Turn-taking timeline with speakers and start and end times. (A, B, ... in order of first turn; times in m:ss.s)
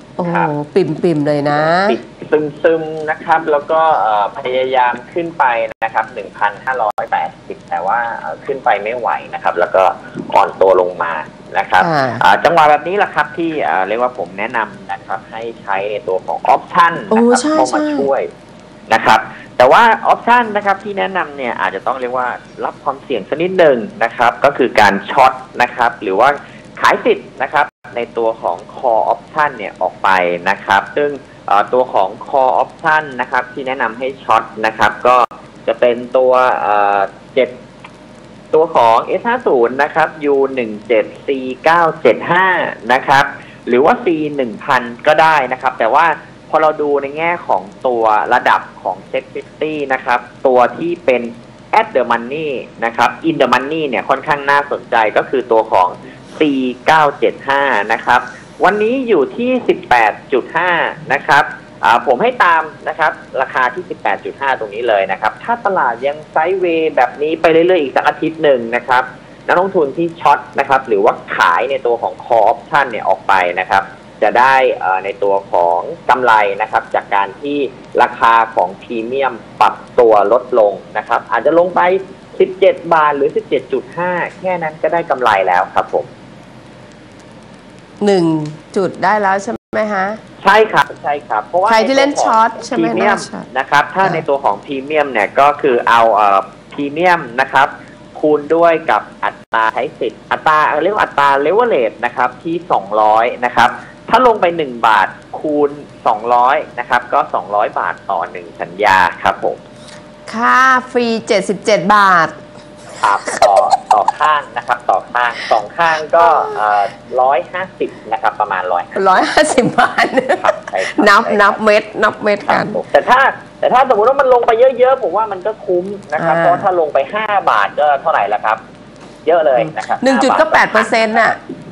0:00.2-0:02.0 A
0:00.3-0:00.5 B
0:01.5-0:18.3 B
0:11.8-0:12.2 A
0:17.1-0:18.1 A
0:18.9-0:37.6 B
0:38.5-1:26.1 B
1:28.0-1:30.2 A
1:30.4-1:49.6 B
1:31.7-1:33.5 A
1:50.3-1:52.4 A
1:53.0-1:59.0 B
1:56.2-1:56.6 A
1:58.9-2:02.8 A
2:00.3-2:01.6 B
2:02.4-2:08.6 B
2:06.2-2:06.7 A
2:09.2-2:11.4 B
2:09.6-2:11.4 A